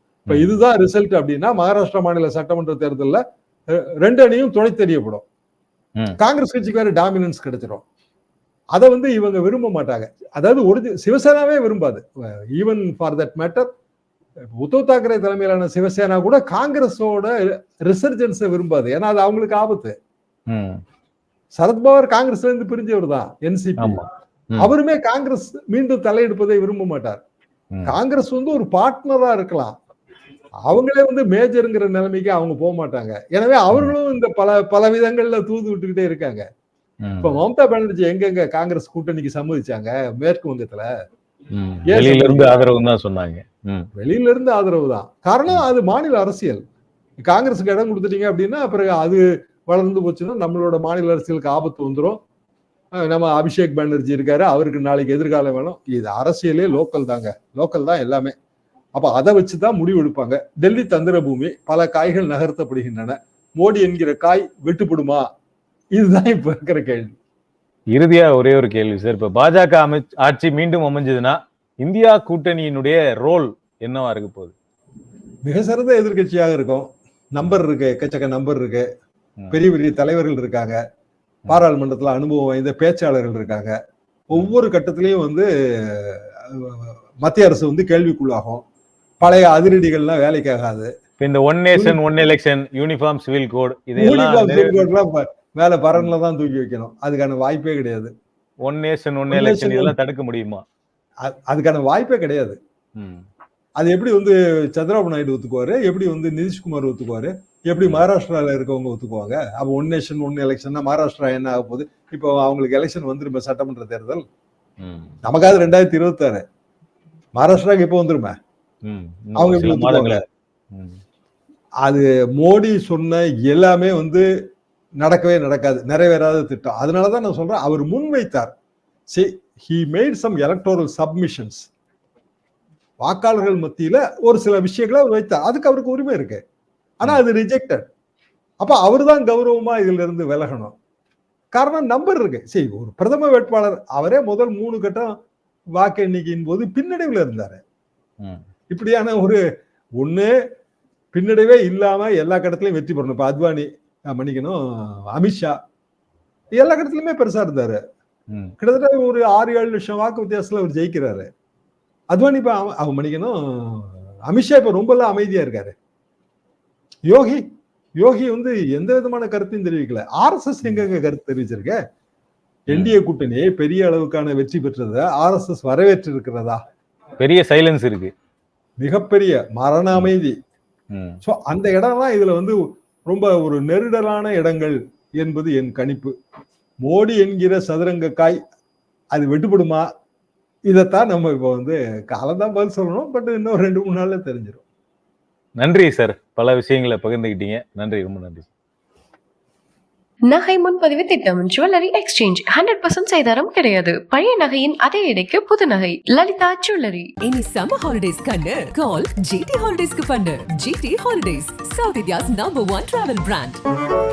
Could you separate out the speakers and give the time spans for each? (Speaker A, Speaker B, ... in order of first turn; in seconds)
Speaker A: 0.3-0.6, 20.5-20.8, 23.8-24.7, 37.0-37.3, 41.5-43.9, 67.9-74.5, 91.2-94.9, 98.6-100.6, 103.0-103.2, 114.8-115.2, 118.8-120.2, 120.7-121.0, 177.2-178.1, 180.9-181.2, 195.6-198.5
Speaker B: 0.3-5.2, 6.2-7.8, 8.7-13.7, 14.6-17.3, 17.8-19.9, 21.5-24.1, 24.6-27.2, 27.9-29.8, 30.6-36.4, 37.2-40.9, 41.9-42.6, 44.0-46.6, 47.2-52.2, 53.0-58.3, 58.9-65.2, 65.9-67.1, 75.4-78.8, 79.5-80.8, 81.5-83.7, 84.3-88.6, 89.2-90.9, 91.7-92.0, 94.0-98.1, 99.3-99.9, 101.2-102.6, 103.8-114.2, 115.2-116.4, 117.3-118.3, 119.4-120.2, 121.8-124.2, 125.0-128.5, 129.1-131.7, 133.0-136.4, 137.0-137.8, 138.6-140.7, 141.5-145.1, 145.7-147.6, 148.7-149.4, 150.0-150.3, 151.1-155.5, 156.5-157.8, 158.6-161.3, 162.1-165.7, 167.1-167.4, 168.0-171.8, 172.7-176.6, 178.8-180.3, 181.2-186.1, 186.8-188.4, 189.1-189.9, 190.7-194.6
Speaker C: 200.3-207.1
Speaker D: 207.2-213.6